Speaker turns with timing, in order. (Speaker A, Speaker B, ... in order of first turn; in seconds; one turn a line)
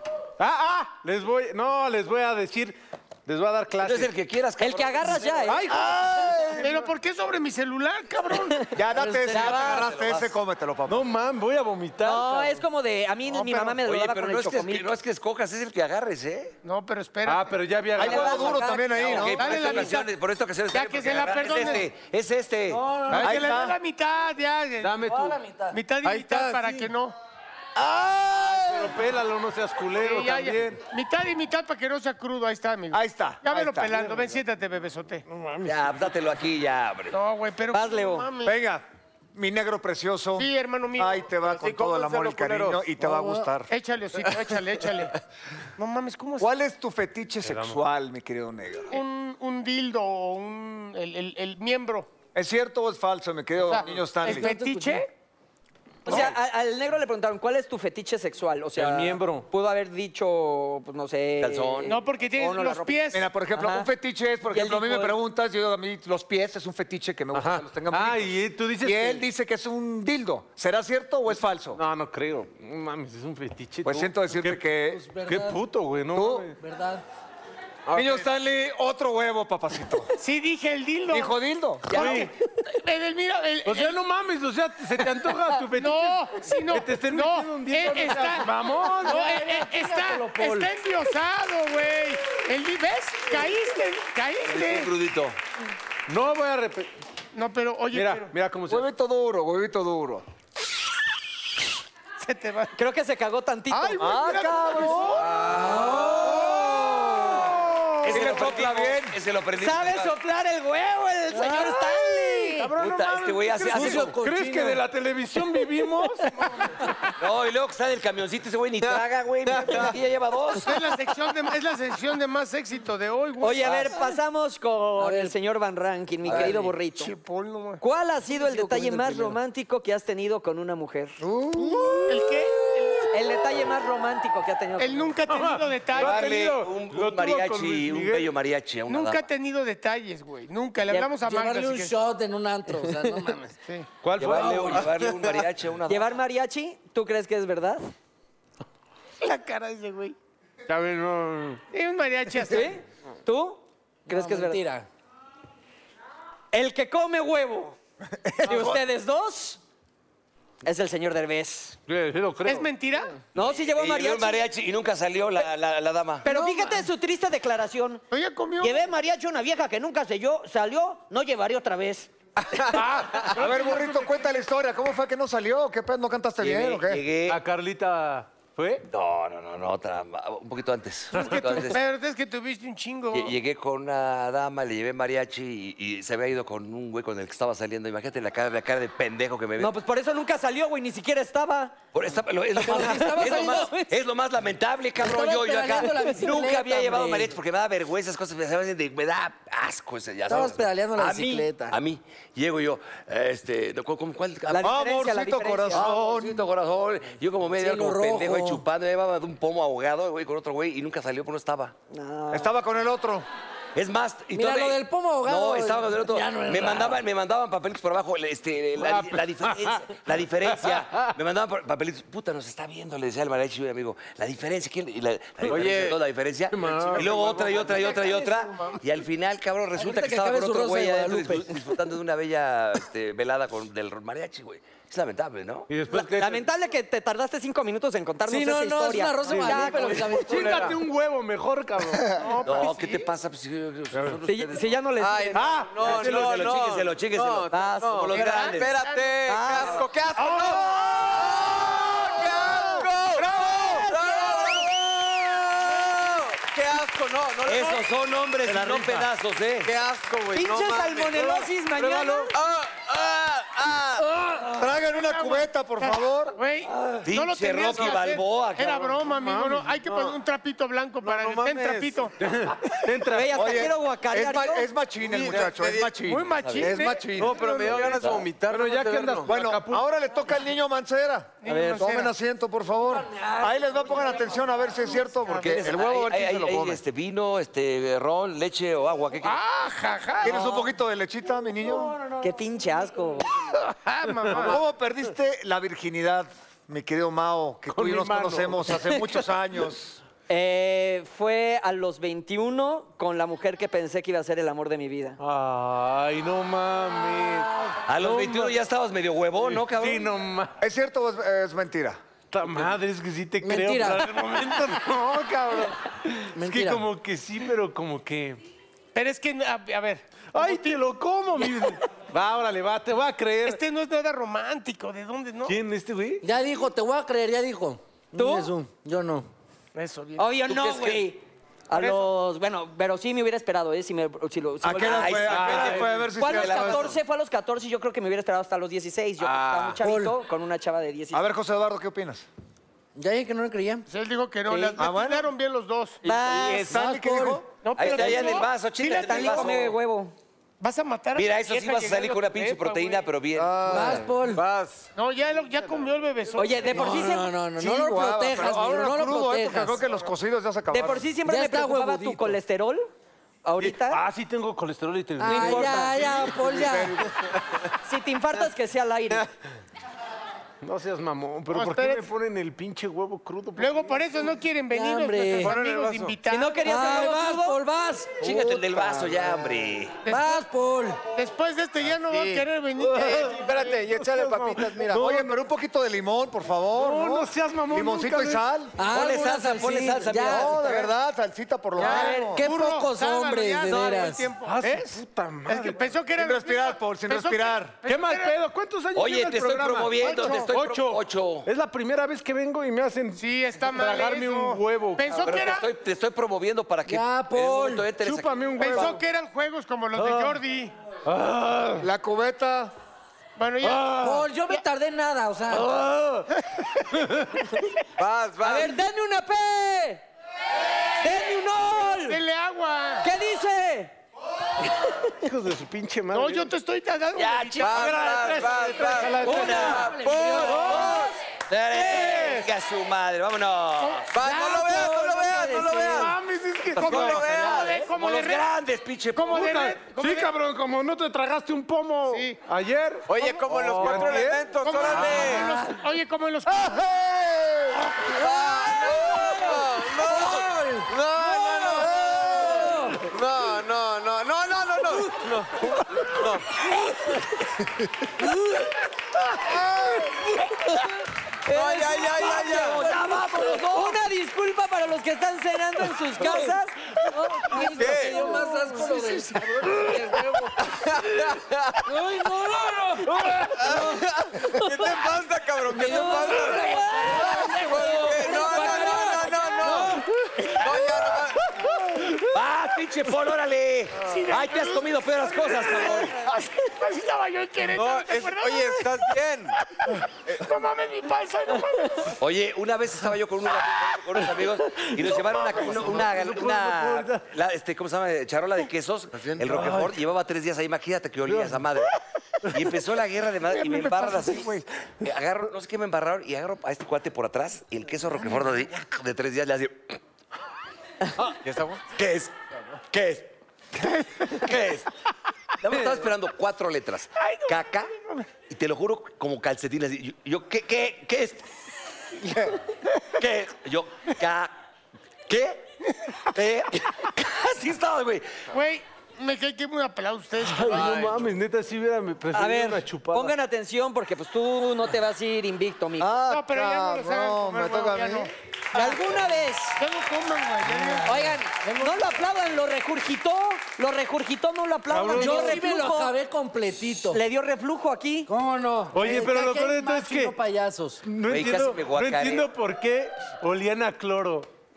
Speaker A: 0.4-4.1
Speaker B: 3.8-5.4
Speaker C: 4.6-5.7
Speaker A: 5.4-6.8
Speaker D: 5.7-6.7
Speaker E: 6.6-8.7
Speaker D: 8.7-11.1
Speaker F: 8.9-9.7
Speaker C: 9.3-9.9
Speaker B: 9.5-10.3
Speaker A: 10.9-12.6
Speaker C: 12.0-14.9
Speaker E: 13.2-13.8
Speaker B: 13.8-16.5
Speaker E: 16.6-17.6
Speaker A: 17.2-18.7
Speaker D: 17.9-19.5
Speaker C: 18.0-19.9
Speaker B: 18.8-22.9
Speaker E: 19.3-20.1
Speaker E: 20.7-21.9
Speaker F: 22.7-23.5
Speaker D: 23.1-23.8
Speaker E: 23.1-25.1
Speaker A: 24.8-25.4
Speaker F: 25.0-25.9
Speaker E: 25.7-27.1
Speaker G: 26.2-26.6
Speaker A: 26.3-26.7
Speaker D: 27.8-28.6
Speaker A: 28.3-30.8
Speaker E: 29.9-35.2
Speaker D: 32.9-34.1
Speaker A: 35.3-35.6
Speaker B: 35.6-37.2
Speaker E: 37.1-38.5
Speaker C: 37.7-38.2
Speaker D: 38.4-43.7
Speaker E: 40.4-41.8
Speaker G: 41.6-42.9
Speaker F: 43.0-43.5
Speaker E: 43.7-45.1
Speaker E: 45.8-46.5
Speaker D: 46.4-49.0
Speaker A: 47.5-47.8
Speaker E: 48.9-52.1
Speaker D: 52.3-54.5
Speaker E: 53.6-55.1
Speaker C: 54.3-55.0
Speaker F: 54.3-55.0
Speaker C: 56.0-63.9
Speaker A: 58.8-59.5
Speaker B: 61.4-62.0
Speaker E: 61.8-63.3
Speaker D: 63.1-71.8
Speaker C: 64.5-65.2
Speaker A: 67.3-69.3
Speaker A: 71.7-74.6
Speaker D: 73.8-75.1
Speaker F: 74.8-75.6
Speaker A: 75.2-76.5
Speaker D: 76.1-76.5
Speaker F: 76.6-77.0
Speaker A: 77.9-78.2
Speaker D: 77.9-80.1
Speaker E: 80.1-84.0
Speaker D: 81.1-82.2
Speaker A: 81.9-82.3
Speaker A: 83.6-89.2
Speaker E: 85.7-94.9
Speaker F: 88.9-90.7
Speaker B: 94.4-95.4
Speaker A: 96.1-96.9
Speaker E: 97.3-98.3
Speaker A: 97.9-98.9
Speaker D: 98.7-100.2
Speaker E: 102.2-102.7
Speaker C: 102.7-104.2
Speaker E: 103.7-105.4
Speaker D: 104.0-105.3
Speaker A: 105.2-106.6
Speaker B: 105.4-105.8
Speaker F: 105.5-106.4
Speaker C: 105.6-107.5
Speaker B: 108.0-110.1
Speaker D: 108.0-109.2
Speaker C: 109.6-112.7
Speaker F: 111.3-112.3
Speaker A: 112.5-116.7
Speaker B: 112.8-114.2
Speaker F: 113.7-114.8
Speaker B: 117.2-120.8
Speaker G: 118.8-119.9
Speaker E: 120.6-124.1
Speaker C: 123.4-127.1
Speaker F: 125.0-125.3
Speaker B: 126.2-126.6
Speaker F: 126.3-126.7
Speaker E: 126.9-127.8
Speaker C: 127.8-131.2
Speaker F: 128.3-129.3
Speaker D: 131.2-132.2
Speaker E: 131.6-133.1
Speaker C: 133.1-135.1
Speaker E: 134.8-136.3
Speaker A: 135.3-138.3
Speaker B: 135.9-139.2
Speaker E: 138.9-141.9
Speaker F: 141.2-143.5
Speaker A: 144.0-144.9
Speaker B: 144.2-146.2
Speaker C: 145.9-147.8
Speaker E: 149.2-150.1
Speaker A: 150.7-151.6
Speaker E: 151.7-152.7
Speaker C: 152.5-154.6
Speaker F: 154.1-154.9
Speaker C: 156.5-157.8
Speaker D: 158.1-158.8
Speaker C: 158.4-159.6
Speaker C: 160.6-161.8
Speaker A: 161.9-162.7
Speaker E: 162.4-163.1
Speaker C: 163.3-164.5
Speaker B: 163.4-166.3
Speaker C: 166.2-168.0
Speaker E: 166.3-166.7
Speaker E: 168.1-168.9
Speaker C: 168.6-172.1
Speaker G: 172.5-173.3
Speaker E: 172.7-174.3
Speaker D: 173.2-177.0
Speaker B: 176.4-177.4
Speaker A: 177.2-178.9
Speaker B: 178.9-181.8
Speaker E: 181.1-183.3
Speaker A: 181.1-181.5
Speaker B: 183.1-189.8
Speaker C: 189.6-191.8
Speaker B: 191.9-204.7
Speaker F: 192.6-193.9
Speaker C: 192.6-193.8
Speaker F: 195.0-197.3
Speaker F: 200.3-201.8
Speaker C: 204.5-205.9
Speaker D: 204.6-206.4
Speaker B: 205.7-211.7
Speaker F: 207.6-208.6
Speaker C: 211.9-212.5
Speaker D: 212.3-213.2
Speaker B: 213.7-235.7
Speaker F: 214.3-217.0
Speaker A: 218.8-219.9
Speaker A: 220.5-221.1
Speaker A: 225.4-225.7
Speaker G: 225.4-226.0
Speaker A: 226.5-227.7
Speaker G: 226.6-227.9
Speaker E: 227.5-228.8
Speaker F: 229.8-231.6
Speaker A: 235.7-236.5
Speaker C: 235.9-240.6
Speaker F: 238.3-240.8
Speaker A: 239.3-242.3
Speaker E: 242.1-243.1
Speaker B: 242.4-244.8
Speaker A: 243.9-244.2
Speaker C: 244.2-245.5
Speaker G: 245.0-257.8
Speaker A: 245.3-246.6
Speaker B: 245.8-248.7
Speaker C: 247.5-248.2
Speaker E: 248.1-254.0
Speaker C: 249.2-249.8
Speaker C: 253.2-254.7
Speaker B: 257.4-259.7
Speaker G: 258.5-259.0
Speaker G: 259.6-264.1
Speaker C: 260.3-262.4
Speaker D: 264.4-266.4
Speaker E: 264.4-272.1
Speaker B: 266.7-269.1
Speaker A: 269.2-269.7
Speaker G: 269.8-270.2
Speaker G: 271.0-272.1
Speaker A: 272.2-273.7
Speaker C: 273.1-274.7
Speaker D: 273.3-278.0
Speaker G: 275.0-276.0
Speaker E: 276.0-277.3
Speaker B: 276.4-276.7
Speaker G: 277.1-279.3
Speaker B: 277.6-278.3
Speaker A: 278.4-279.9
Speaker D: 279.2-286.8
Speaker E: 281.4-282.1
Speaker F: 282.9-285.0
Speaker E: 285.1-285.7
Speaker B: 285.4-289.4
Speaker E: 289.2-290.7
Speaker D: 290.2-292.0
Speaker F: 291.6-292.3
Speaker C: 292.2-293.3
Speaker E: 293.7-294.6
Speaker A: 294.1-294.5
Speaker D: 294.3-300.0
Speaker A: 297.7-299.3
Speaker C: 300.3-305.2
Speaker A: 305.2-308.5
Speaker B: 307.9-310.1
Speaker A: 309.4-310.6
Speaker D: 310.6-312.0
Speaker A: 312.3-318.4
Speaker F: 313.4-314.3
Speaker F: 316.3-316.8
Speaker E: 318.9-320.8
Speaker A: 320.3-323.6
Speaker E: 323.4-325.6
Speaker A: 325.4-326.2
Speaker F: 326.2-329.3
Speaker C: 328.1-328.5
Speaker E: 329.7-330.4
Speaker C: 330.2-335.5
Speaker B: 330.5-331.1
Speaker E: 331.7-332.1
Speaker D: 334.6-336.9
Speaker B: 334.8-337.0
Speaker A: 335.3-335.9
Speaker C: 336.1-341.2
Speaker G: 339.2-339.8
Speaker F: 339.8-340.1
Speaker D: 341.1-342.2
Speaker F: 342.9-343.9
Speaker E: 343.9-346.0
Speaker C: 344.5-344.8
Speaker D: 344.8-345.3
Speaker C: 346.0-346.7
Speaker D: 346.0-347.4
Speaker F: 346.6-347.5
Speaker E: 347.6-349.7
Speaker B: 347.7-349.7
Speaker C: 348.9-350.1
Speaker E: 350.6-353.0
Speaker B: 351.1-354.1
Speaker D: 353.4-354.1
Speaker F: 353.6-354.4
Speaker G: 354.2-354.9
Speaker E: 354.9-357.1
Speaker C: 356.3-357.3
Speaker F: 356.6-359.9
Speaker D: 357.6-361.1
Speaker C: 360.7-362.9
Speaker F: 361.2-362.4
Speaker C: 363.4-364.0
Speaker A: 363.6-366.4
Speaker F: 365.2-367.0
Speaker C: 365.2-366.3
Speaker D: 366.0-367.1
Speaker C: 367.8-369.3
Speaker A: 370.6-374.3
Speaker E: 371.5-372.1
Speaker E: 373.6-376.7
Speaker F: 374.7-375.6
Speaker G: 375.4-376.2
Speaker C: 376.3-377.6
Speaker F: 376.6-378.5
Speaker B: 378.2-380.0
Speaker F: 380.0-381.0
Speaker E: 380.1-380.4
Speaker E: 381.1-383.7
Speaker G: 382.0-382.5
Speaker A: 382.8-385.4
Speaker G: 383.0-385.0
Speaker D: 384.9-388.8
Speaker A: 386.7-388.5
Speaker F: 388.7-390.8
Speaker B: 388.8-390.8
Speaker D: 390.3-392.4
Speaker F: 391.8-394.3
Speaker E: 391.8-398.4
Speaker A: 394.4-395.9
Speaker D: 396.2-397.8
Speaker A: 397.8-405.5
Speaker B: 398.9-401.5
Speaker E: 400.1-400.4
Speaker E: 403.2-405.7
Speaker B: 405.2-409.0
Speaker F: 406.9-407.9
Speaker A: 408.0-409.0
Speaker E: 408.6-410.7
Speaker A: 409.9-410.4
Speaker A: 411.1-411.9
Speaker D: 411.8-412.7
Speaker E: 413.4-414.6
Speaker A: 413.6-414.2
Speaker F: 413.9-415.8
Speaker A: 415.5-416.3
Speaker A: 416.8-417.4
Speaker G: 418.0-418.8
Speaker C: 418.4-420.0
Speaker C: 421.0-422.2
Speaker E: 421.8-423.1
Speaker C: 423.0-423.9
Speaker A: 425.2-426.5
Speaker E: 426.1-428.0
Speaker B: 427.1-428.1
Speaker G: 427.6-431.1
Speaker A: 427.7-431.0
Speaker B: 429.2-430.0
Speaker F: 429.2-431.0
Speaker C: 430.5-431.1
Speaker B: 431.5-434.1
Speaker A: 431.7-432.5
Speaker G: 434.1-436.1
Speaker F: 434.2-436.1
Speaker A: 435.9-437.4
Speaker E: 436.7-438.5
Speaker G: 436.8-437.8
Speaker B: 436.8-439.5
Speaker E: 439.1-440.3
Speaker A: 439.3-445.4
Speaker E: 442.1-442.4
Speaker G: 443.1-445.5
Speaker E: 443.7-446.9
Speaker D: 446.5-447.9
Speaker G: 448.0-456.6
Speaker F: 448.4-453.1
Speaker D: 452.0-452.3
Speaker F: 454.6-455.3
Speaker F: 458.2-458.7
Speaker G: 459.4-460.0
Speaker C: 461.4-468.4
Speaker G: 461.5-462.9
Speaker F: 462.1-463.9
Speaker B: 462.2-464.0
Speaker F: 466.2-470.6
Speaker G: 467.7-468.2
Speaker E: 468.2-469.6
Speaker G: 470.6-472.0
Speaker F: 471.9-473.9
Speaker A: 473.2-473.5
Speaker G: 473.2-481.6
Speaker F: 474.6-474.9
Speaker F: 475.7-479.9
Speaker C: 475.8-480.6
Speaker B: 477.6-478.4
Speaker B: 482.1-486.2
Speaker E: 484.0-489.1
Speaker G: 487.7-489.6
Speaker E: 489.8-492.2
Speaker B: 492.2-501.9
Speaker A: 494.8-497.2
Speaker G: 499.2-499.4
Speaker A: 499.5-499.9
Speaker A: 501.2-501.7
Speaker B: 502.5-510.0
Speaker D: 503.6-504.6
Speaker G: 511.3-511.8
Speaker B: 511.9-512.3
Speaker B: 512.9-513.3
Speaker B: 514.2-514.9
Speaker B: 515.6-517.9
Speaker E: 517.2-517.5
Speaker B: 518.5-521.4
Speaker B: 523.1-524.5
Speaker B: 525.3-528.2
Speaker E: 528.5-531.2
Speaker A: 530.4-533.3
Speaker G: 530.7-531.1
Speaker C: 532.3-536.1
Speaker D: 536.0-538.3
Speaker E: 536.3-539.0
Speaker C: 538.7-539.8
Speaker E: 539.8-542.1
Speaker C: 541.0-546.1
Speaker A: 544.9-545.7
Speaker F: 545.1-547.2
Speaker C: 547.1-548.3
Speaker F: 548.3-551.0
Speaker A: 548.9-550.4
Speaker A: 551.0-554.5
Speaker B: 551.3-552.5